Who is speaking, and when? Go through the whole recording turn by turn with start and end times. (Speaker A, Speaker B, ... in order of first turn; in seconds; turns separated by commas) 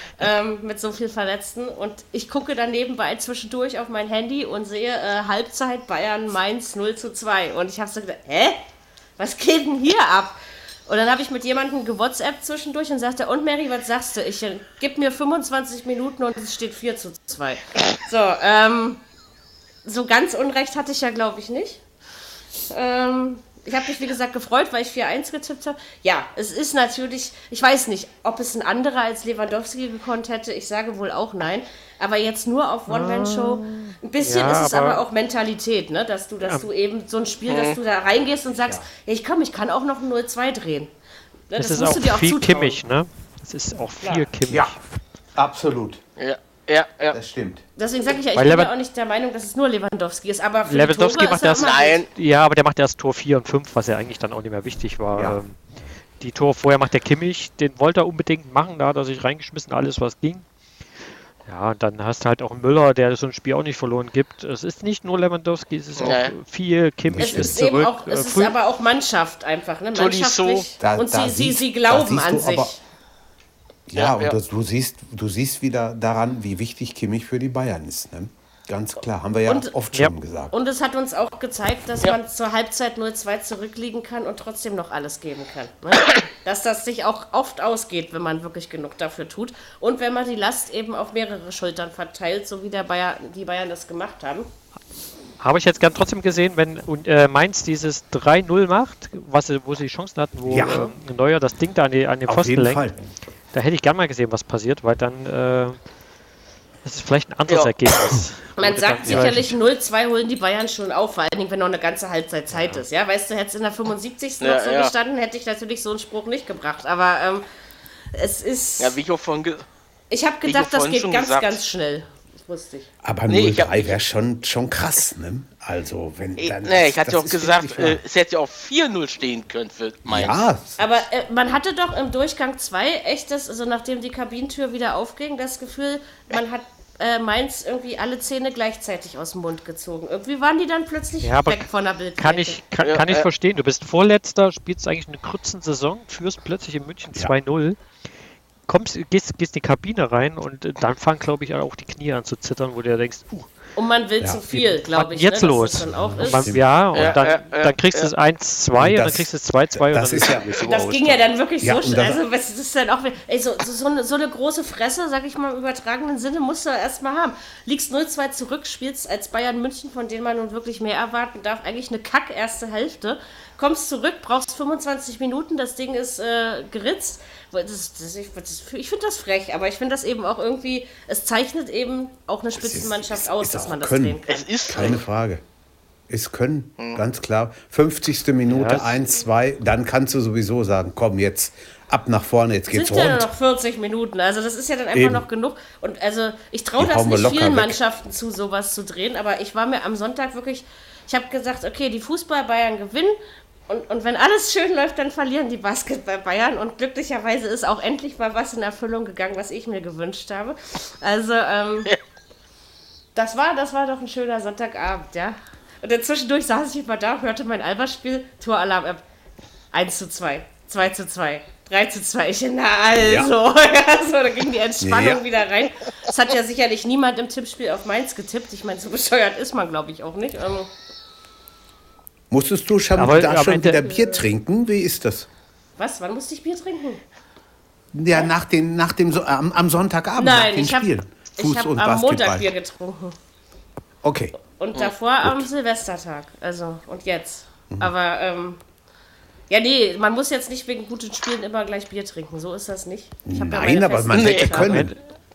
Speaker A: 0.2-8.6, Speaker A: 9.2-19.0, Speaker A: 19.9-21.8, Speaker A: 22.7-40.9, Speaker B: 32.9-35.0, Speaker B: 36.4-36.7, Speaker C: 37.5-37.8, Speaker A: 41.5-42.8, Speaker B: 41.6-44.8, Speaker D: 44.5-44.8, Speaker D: 45.4-46.0, Speaker C: 46.2-47.2, Speaker D: 47.1-47.6, Speaker A: 47.8-52.0, Speaker B: 48.3-48.7, Speaker B: 50.7-55.6, Speaker C: 51.6-52.1, Speaker B: 56.2-60.5, Speaker B: 61.5-68.5, Speaker C: 66.0-66.3, Speaker D: 67.1-67.6, Speaker A: 67.2-72.8, Speaker C: 70.0-70.7, Speaker D: 70.8-72.7, Speaker D: 73.9-80.5, Speaker C: 74.0-74.4, Speaker A: 79.5-79.7, Speaker A: 80.5-94.5, Speaker B: 95.4-102.9, Speaker D: 100.5-100.9, Speaker D: 102.3-103.1, Speaker B: 103.5-105.8, Speaker B: 106.8-109.6, Speaker C: 107.5-107.7, Speaker A: 108.6-117.5, Speaker C: 114.4-114.9, Speaker A: 118.1-119.0, Speaker C: 118.8-119.7, Speaker A: 120.1-122.9, Speaker C: 120.5-121.6, Speaker D: 123.0-128.0, Speaker C: 123.3-124.0, Speaker C: 126.4-130.4, Speaker D: 130.1-130.9, Speaker A: 130.8-142.6, Speaker B: 141.2-147.8, Speaker C: 142.8-143.3, Speaker B: 148.7-153.5, Speaker A: 153.8-156.5, Speaker B: 154.6-161.3, Speaker D: 155.9-157.2, Speaker C: 156.9-158.1, Speaker D: 158.8-160.6, Speaker A: 160.6-185.0, Speaker D: 161.6-162.2, Speaker D: 182.6-185.4, Speaker C: 184.3-185.0, Speaker D: 186.1-193.3, Speaker B: 188.5-189.0, Speaker A: 192.7-211.9, Speaker D: 194.9-195.2, Speaker D: 196.8-197.8, Speaker A: 213.2-219.0, Speaker A: 219.7-230.7, Speaker D: 223.0-223.3, Speaker D: 224.8-225.3, Speaker D: 232.3-235.3, Speaker B: 233.0-234.2, Speaker A: 235.8-237.0, Speaker D: 237.9-242.5, Speaker A: 240.2-243.2, Speaker D: 244.0-244.4, Speaker A: 244.4-248.6, Speaker A: 249.5-254.9, Speaker D: 253.3-254.9, Speaker C: 254.1-254.6, Speaker B: 254.6-254.9